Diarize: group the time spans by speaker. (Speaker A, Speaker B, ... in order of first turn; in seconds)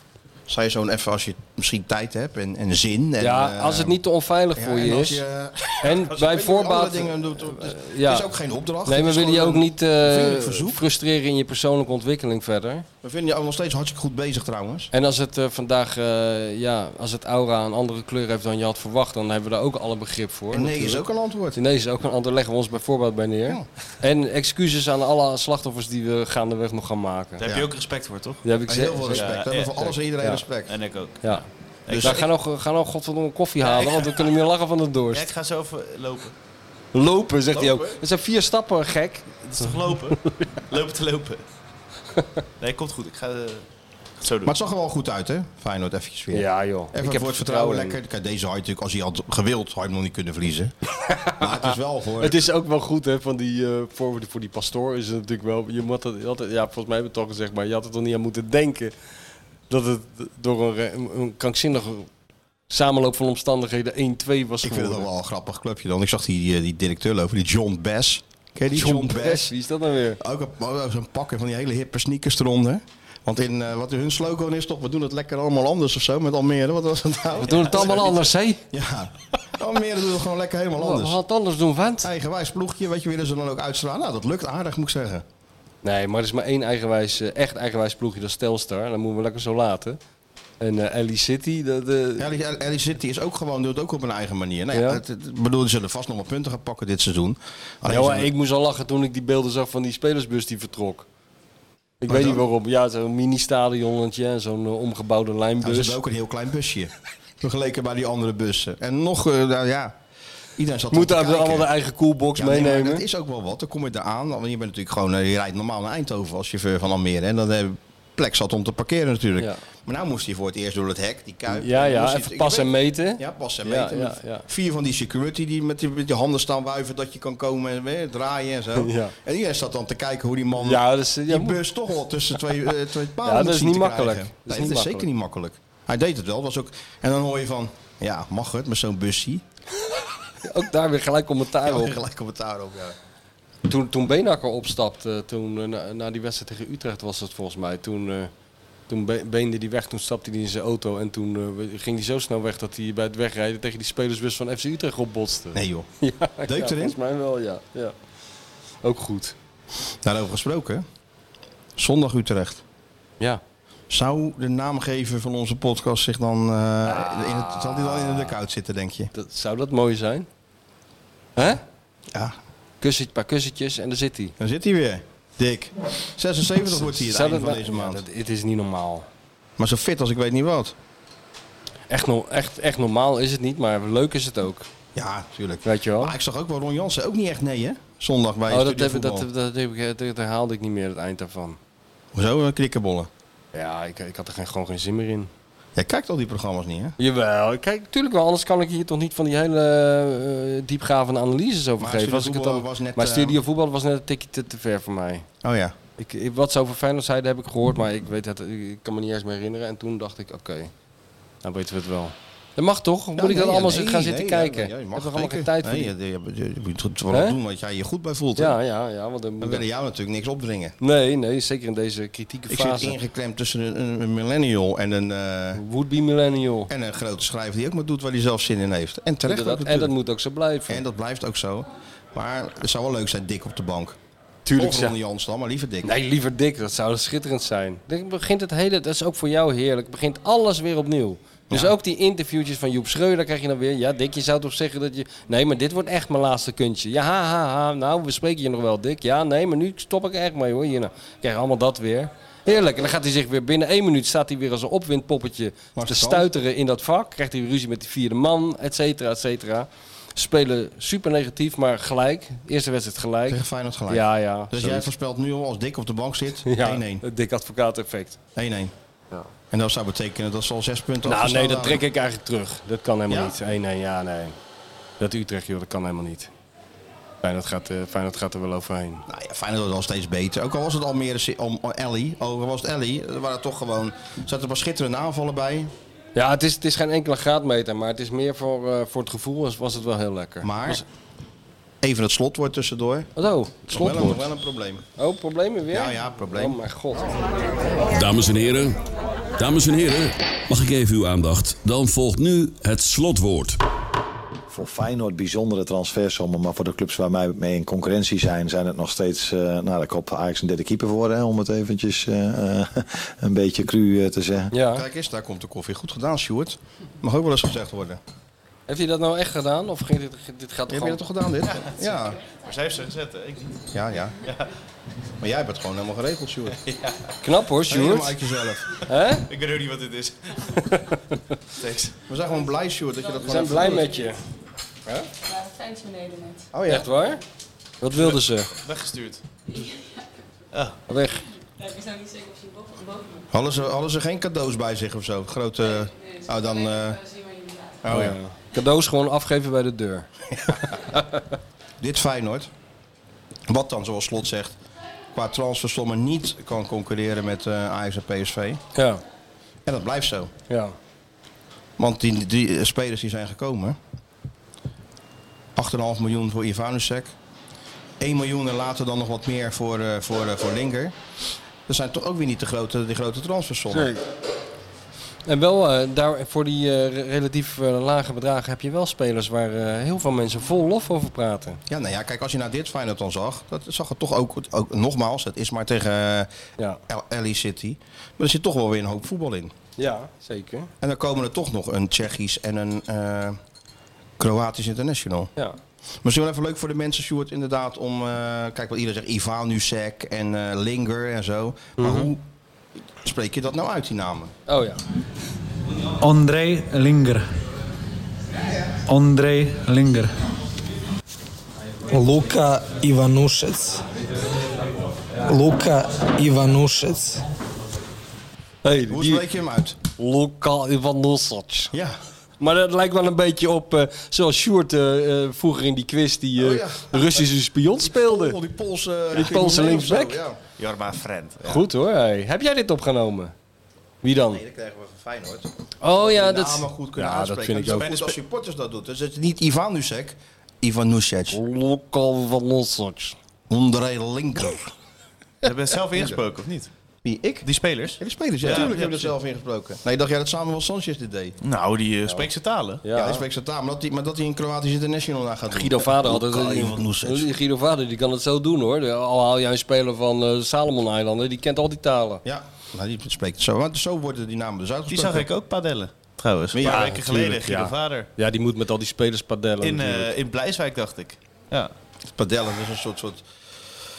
Speaker A: 0.5-4.0, 4.5-10.8, 13.0-14.9, 20.5-21.6, 28.7-30.7, 31.9-32.3, 37.5-38.0, 44.5-50.7, 51.4-52.5, 64.6-69.5, 70.2-81.2, 82.0-85.2, 92.2-98.3, 102.1-102.4, 105.6-110.0, 110.6-111.7, 112.3-139.4, 141.6-143.0, 155.5-155.9, 156.4-157.0, 160.0-160.8, 161.8-162.6, 163.9-169.1, 174.4-178.0, 179.6-180.8, 184.9-189.3, 192.1-193.1, 195.8-197.0, 201.8-203.4, 205.4-205.8, 213.2-218.6, 219.4-220.8, 222.5-225.6, 226.7-229.9, 230.7-234.0, 234.5-235.9, 255.8-256.3, 263.3-267.0, 268.4-268.7, 269.5-271.8, 273.1-273.4, 279.1-285.7, 290.4-290.8, 291.8-293.1, 293.7-294.8, 295.7-296.6, 314.6-318.0, 320.7-322.2, 323.7-324.2, 325.2-326.6, 327.7-328.8, 332.1-333.9, 336.5-336.9, 343.3-347.1, 347.8-348.2, 351.8-352.5, 353.5-354.6, 355.1-358.6, 359.6-360.3, 361.8-363.8, 365.6-367.1, 368.0-370.9, 371.7-374.0, 381.7-386.3, 386.9-389.5, 390.8-393.4, 394.2-395.3, 396.0-402.2, 403.0-404.3, 418.9-419.8, 421.7-422.0, 426.4-427.3, 427.8-430.4, 434.3-441.4, 443.5-444.7, 447.0-447.5, 448.0-451.4, 452.9-457.3, 462.2-465.3, 466.5-467.2, 472.1-473.2
Speaker B: 3.2-5.2, 5.8-8.3, 8.9-12.9, 14.9-21.0, 21.6-27.4, 28.4-29.3, 32.0-35.3, 36.9-39.3, 46.3-48.0, 51.0-58.9, 59.7-62.1, 62.7-65.1, 68.7-70.2, 77.4-78.6, 80.8-82.1, 85.8-90.0, 90.6-92.3, 94.7-95.0, 97.9-101.1, 102.0-106.0, 110.9-113.0, 121.5-124.5, 128.8-129.1, 130.6-131.6, 133.2-135.1, 140.4-142.0, 143.7-148.3, 148.9-157.9, 158.8-159.3, 166.8-168.4, 169.1-170.3, 171.4-171.6, 172.8-174.3, 176.7-179.1, 181.9-184.7, 185.7-186.2, 188.5-191.6, 193.5-195.3, 197.0-205.3, 206.0-210.7, 211.4-215.9, 217.1-217.4, 218.4-219.7, 220.8-223.0, 225.6-226.7, 229.3-230.8, 234.5-234.9, 235.8-264.9, 266.5-268.2, 271.1-274.4, 275.0-276.3, 277.2-279.1, 286.1-290.8, 293.2-294.3, 295.0-297.2, 314.5-314.9, 318.7-321.0, 327.2-328.1, 328.9-329.3, 330.7-331.1, 333.2-334.2, 336.7-337.2, 337.8-338.5, 340.9-341.2, 347.9-351.2, 358.8-359.0, 360.5-360.8, 373.7-374.0, 375.3-381.6, 389.8-390.7, 401.8-402.1, 404.5-404.8, 418.6-419.2, 420.0-421.7, 422.4-428.4, 429.1-430.2, 431.4-433.3, 434.0-434.4, 435.8-438.1, 441.3-443.2, 452.8-453.2, 455.5-462.2, 466.6-470.1
Speaker C: 27.4-28.4, 29.1-30.0, 30.7-32.2, 33.6-34.3, 35.1-36.3, 39.4-41.4, 42.6-43.6, 44.2-44.5, 321.6-323.7, 324.2-324.5, 326.6-327.1, 329.3-330.8, 331.6-332.0, 337.9-339.2, 340.5-340.8, 430.6-431.4, 445.4-446.7, 447.4-449.1, 451.4-452.8, 464.9-468.1, 469.6-471.7
Speaker D: 297.9-298.8, 299.4-303.6
Speaker E: 304.5-314.5
Speaker F: 335.4-336.4, 341.7-343.1
Speaker G: 406.0-407.3, 408.9-410.1
Speaker H: 411.9-413.8, 415.3-417.2